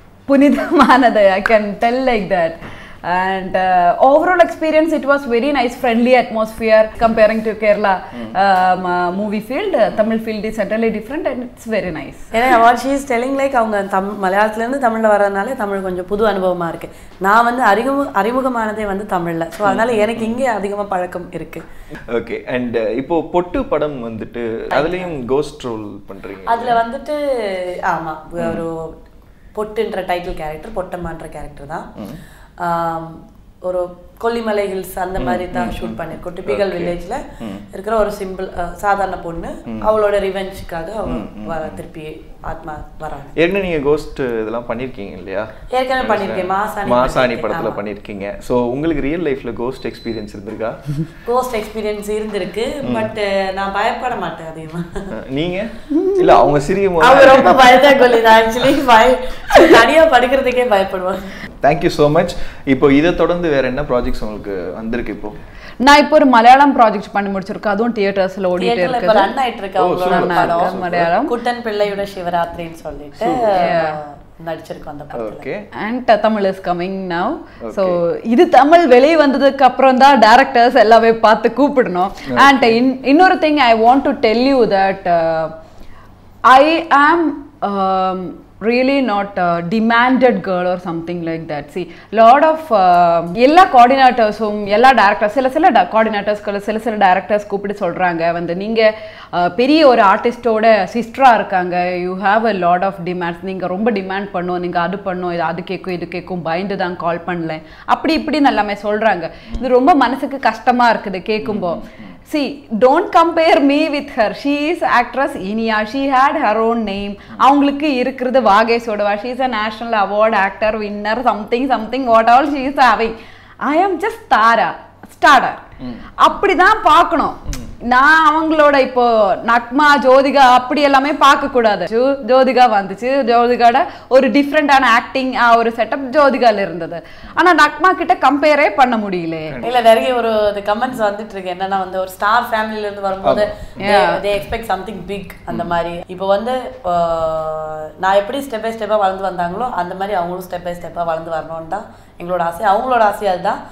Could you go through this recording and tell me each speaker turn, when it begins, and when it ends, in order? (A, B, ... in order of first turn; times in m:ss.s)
0:00.3-0:12.3 A
0:12.3-0:21.6 B
0:19.7-0:20.3 C
0:22.1-0:26.8 C
0:24.7-0:25.1 B
0:26.4-0:28.9 B
0:28.4-0:28.6 C
0:29.6-0:31.9 B
0:32.6-0:43.4 B
0:35.2-0:37.6 C
0:41.1-0:41.8 C
0:43.4-0:50.8 C
0:45.7-0:47.8 B
0:51.3-0:55.0 B
0:52.8-0:53.1 C
0:55.1-0:58.6 C
0:57.0-1:01.3 B
1:01.6-1:05.4 C
1:05.8-1:09.3 A
1:08.6-1:15.4 B
1:09.8-1:11.1 C
1:10.1-1:11.4 A
1:13.2-1:13.7 C
1:13.5-1:14.0 A
1:15.1-1:15.7 C
1:15.8-1:25.5 A
1:17.6-1:18.0 C
1:22.3-1:22.8 C
1:26.5-2:05.6 A
1:51.4-1:52.1 C
2:06.2-2:19.6 A
2:19.5-2:19.8 C
2:19.6-2:33.6 B
2:23.2-2:23.9 C
2:23.8-2:24.2 A